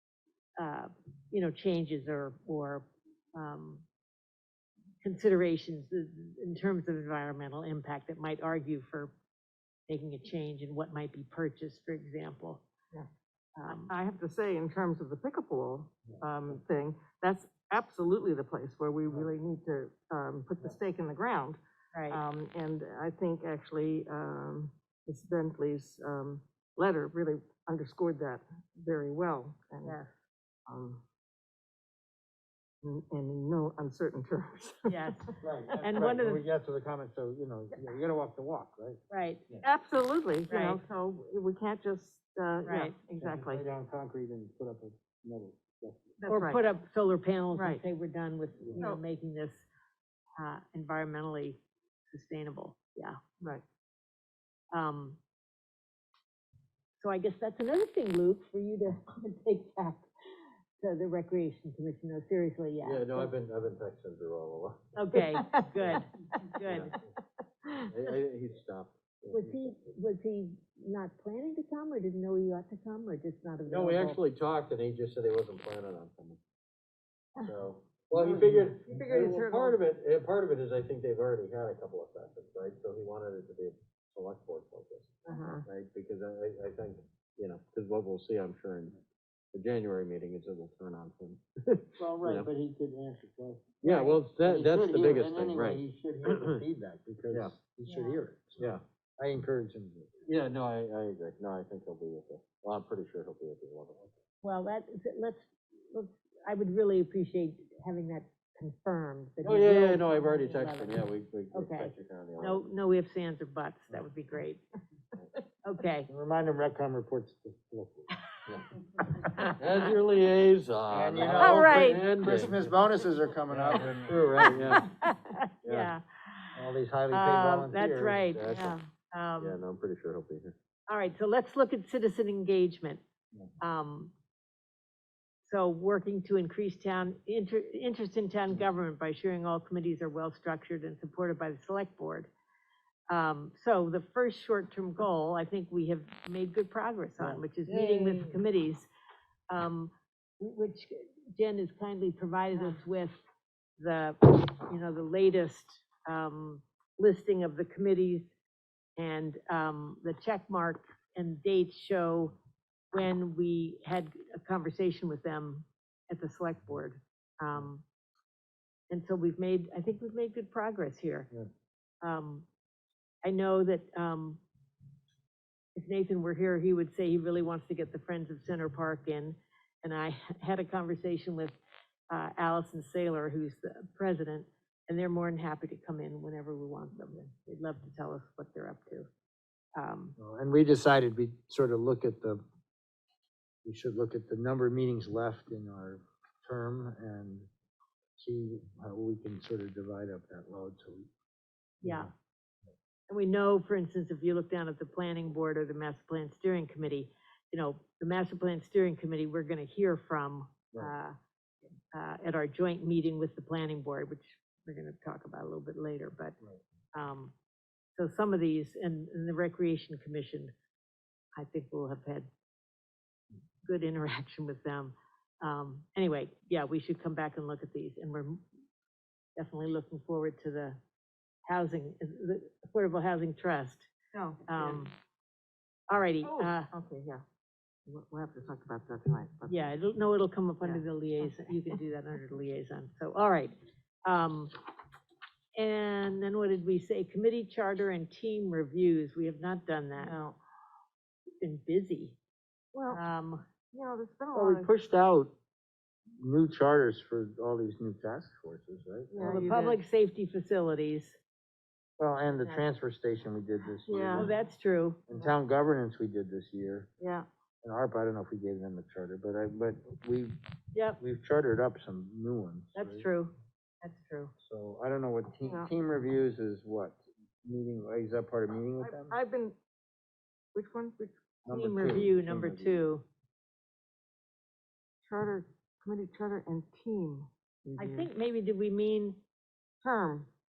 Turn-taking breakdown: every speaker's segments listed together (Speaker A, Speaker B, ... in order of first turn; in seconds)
Speaker A: 0.6-3.8, 5.0-9.1, 9.9-12.6, 13.6-13.9, 21.9-22.2, 29.8-30.1, 34.9-36.4, 39.1-39.4, 40.5-40.8, 42.7-43.0, 46.2-49.6, 50.4-53.2, 54.7-55.2, 57.0-60.1, 60.8-63.3, 65.0-66.9, 69.3-74.2, 85.3-85.6, 93.8-94.2, 97.8-98.2, 104.4-114.7, 115.6-116.1, 119.2-119.6, 121.4-122.1, 124.7-126.6, 127.1-129.6, 130.9-133.0, 133.6-134.1, 135.4-142.3, 143.1-148.9, 149.5-153.2, 153.8-158.3, 159.0-162.3, 162.9-167.8, 168.9-171.3, 172.0-172.5, 173.2-174.4, 175.8-181.6, 182.1-189.1, 189.8-190.2, 201.8-202.1, 203.1-211.2, 211.9-216.4, 216.9-217.3, 217.9-220.5, 221.4-222.3, 223.6-228.4, 229.4-230.8, 231.5-233.9, 234.5-234.9, 235.9-236.7, 239.5-244.5, 245.6-250.2, 251.4-252.2, 252.9-253.4, 259.2-261.2, 262.4-262.6, 264.1-265.0, 270.7-271.0, 272.8-274.3, 281.5-283.0, 287.8-289.2
Speaker B: 13.7-30.0, 30.7-31.0, 32.8-35.1, 39.6-43.6, 46.3-46.6, 47.5-47.8, 48.8-49.0, 65.1-65.7, 78.1-79.8, 85.3-85.5, 234.1-234.9, 236.2-237.2, 237.9-239.7, 240.6-241.6, 250.0-250.4, 252.7-253.0, 253.7-254.7, 259.1-259.8, 263.9-264.3, 267.0-267.3, 275.5-275.7, 278.8-279.6, 280.5-282.1, 285.0-288.1, 289.8-290.3
Speaker C: 35.4-39.7, 43.2-46.2, 92.0-93.8, 94.4-100.3, 116.1-118.2, 119.2-119.5, 120.9-124.6, 126.6-128.2, 190.2-192.4, 193.7-197.5, 198.2-201.1, 201.8-202.1, 254.3-255.3, 256.2-259.5, 262.0-264.3, 265.1-266.9, 267.6-270.3, 271.0-273.1, 274.4-279.2, 281.5-282.8
Speaker D: 62.8-64.9, 66.7-67.0, 67.7-69.7, 73.7-76.4, 77.4-85.2, 85.7-89.0, 89.5-92.5, 93.8-96.6, 100.3-104.1, 109.4-112.6, 119.4-122.8, 123.5-124.9, 125.7-125.9, 128.3-128.8, 129.4-130.6